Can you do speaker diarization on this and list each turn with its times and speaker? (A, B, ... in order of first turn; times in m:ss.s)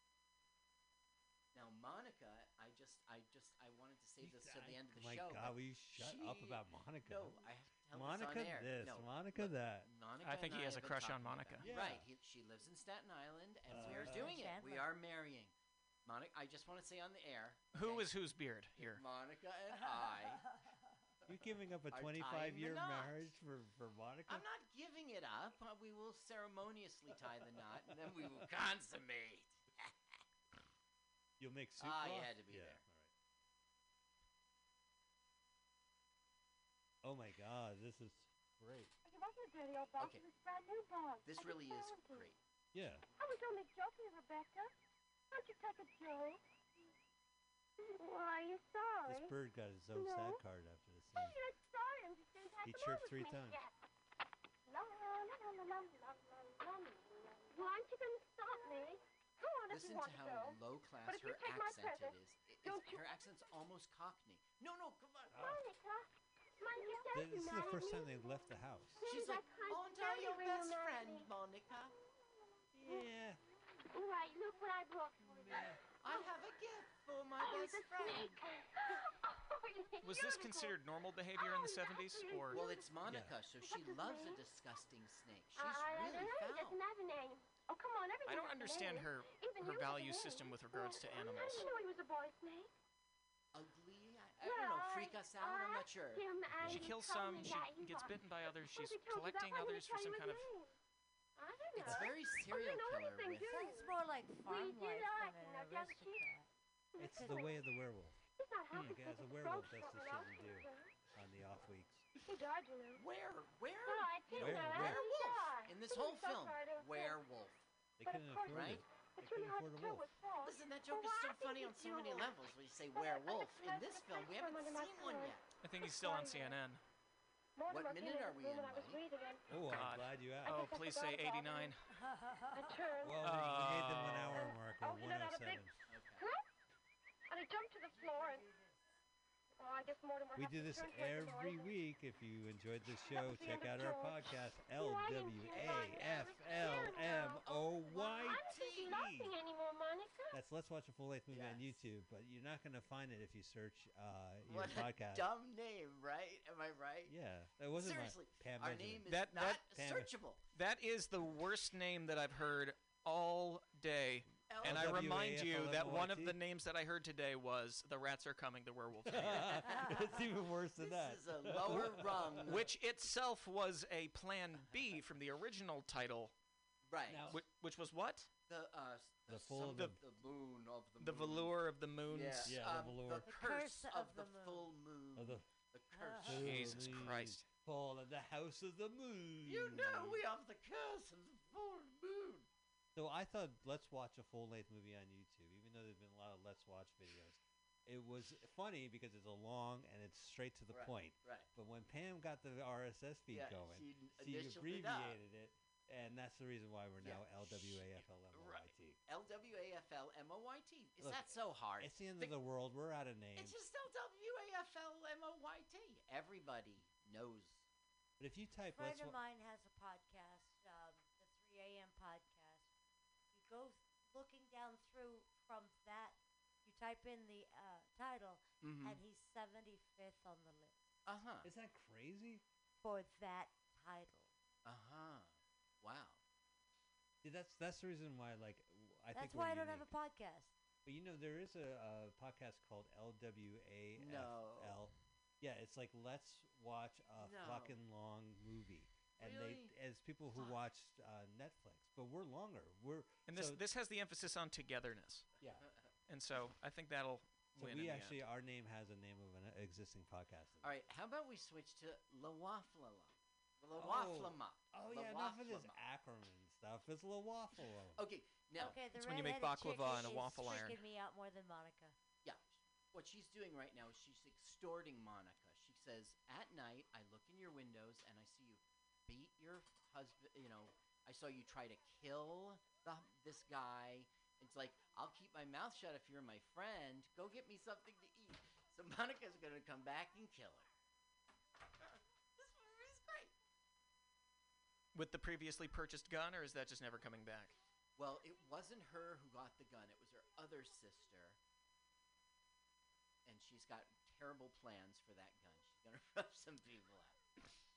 0:01.5-0:15.5 A
0:04.2-0:09.9 B
0:10.2-0:11.7 C
0:11.6-0:12.1 B
0:13.7-0:14.4 B
0:13.7-0:14.9 D
0:16.0-0:18.1 A
0:17.7-0:19.0 C
0:18.8-0:20.5 A
0:21.3-0:24.5 B
0:21.9-0:23.3 A
0:24.3-0:29.9 A
0:31.4-0:33.1 B
0:31.8-0:32.8 A
0:37.0-0:38.9 B
0:39.0-0:42.3 E
0:40.0-0:40.3 A
0:41.2-0:42.4 A
0:42.7-0:43.0 B
0:43.2-0:44.7 E
0:45.3-0:46.4 E
0:47.8-0:49.4 E
0:49.1-0:51.4 B
0:49.9-0:50.4 E
0:51.1-0:53.7 E
0:52.6-0:53.6 B
0:54.7-1:03.1 E
0:59.7-1:05.5 A
1:05.3-1:05.6 B
1:05.4-1:11.3 E
1:07.1-1:09.1 B
1:09.0-1:11.9 A
1:12.3-1:13.1 E
1:12.7-1:13.4 B
1:13.9-1:16.4 E
1:15.2-1:15.8 B
1:16.0-1:18.4 A
1:17.4-1:20.8 E
1:20.0-1:22.6 C
1:21.4-1:23.0 E
1:22.5-1:26.8 A
1:23.0-1:23.4 B
1:23.6-1:24.4 E
1:25.6-1:32.7 E
1:28.3-1:31.7 C
1:33.5-1:36.3 A
1:34.4-1:40.7 E
1:36.5-1:36.9 B
1:36.6-1:40.5 C
1:41.4-1:46.3 E
1:41.8-1:43.7 A
1:41.8-1:42.1 B
1:43.5-1:46.5 D
1:46.9-1:47.6 E
1:47.0-1:48.2 B
1:47.1-1:47.4 D
1:48.4-1:50.9 E
1:48.7-1:52.1 B
1:52.2-1:53.0 E
1:53.0-1:57.7 A
1:53.8-1:57.2 E
1:54.3-1:55.0 B
1:58.0-2:00.1 B
1:58.0-2:02.4 E
1:58.5-1:58.8 A
2:00.4-2:05.4 A
2:02.9-2:06.6 E
2:05.6-2:06.8 C
2:07.6-2:09.5 E
2:07.7-2:09.0 A
2:09.5-2:10.7 B
2:09.7-2:11.8 C
2:10.4-2:11.8 E
2:11.9-2:12.8 D
2:12.5-2:13.3 E
2:13.0-2:15.7 B
2:13.2-2:14.4 C
2:14.4-2:16.5 E
2:15.9-2:16.3 A
2:17.3-2:18.5 E
2:17.9-2:18.9 D
2:19.6-2:21.8 E
2:20.4-2:29.4 B
2:23.0-2:30.4 E
2:26.6-2:26.9 A
2:28.3-2:29.1 A
2:30.3-2:35.3 B
2:31.3-2:31.8 A
2:34.5-2:37.1 A
2:37.1-2:40.1 B
2:37.7-2:40.4 A
2:39.1-2:39.6 C
2:40.5-2:49.6 C
2:44.5-2:45.1 A
2:44.6-2:46.4 B
2:49.1-2:52.6 B
2:49.3-2:50.2 A
2:50.8-2:52.7 A
2:52.4-2:56.3 C
2:56.9-2:57.4 A
2:57.1-2:57.4 B
2:57.3-2:58.3 C
2:58.5-3:01.6 A
2:59.3-3:00.0 B
3:01.0-3:02.6 C
3:02.1-3:07.1 A
3:02.4-3:03.3 B
3:03.3-3:04.7 D
3:05.2-3:05.5 B
3:05.9-3:06.4 D
3:06.2-3:10.2 B
3:06.4-3:07.5 C
3:09.4-3:12.5 A
3:13.0-3:29.0 B
3:20.7-3:21.5 A
3:23.3-3:25.2 A
3:27.0-3:32.4 A
3:31.0-3:33.6 B
3:33.4-3:37.7 A
3:38.2-3:39.2 B
3:38.7-3:42.7 D
3:43.3-3:51.0 D
3:48.6-3:49.0 A
3:51.1-3:51.5 A
3:51.4-3:52.4 B
3:52.8-3:54.3 D
3:54.6-3:56.2 A
3:57.2-3:59.9 B
3:59.1-4:00.5 D
4:00.8-4:13.6 B
4:04.0-4:04.8 A
4:07.2-4:07.8 A
4:09.2-4:09.7 A
4:10.3-4:10.6 A
4:13.3-4:15.3 C
4:15.6-4:15.9 A
4:16.1-4:18.2 C
4:17.6-4:20.7 B
4:20.6-4:25.8 A
4:23.8-4:28.0 B
4:28.0-4:28.8 A
4:28.6-4:32.0 D
4:28.9-4:30.8 C
4:32.2-4:50.7 A
4:52.4-4:53.3 A
4:54.9-4:57.6 C
4:58.0-5:01.4 A
5:03.2-5:07.2 A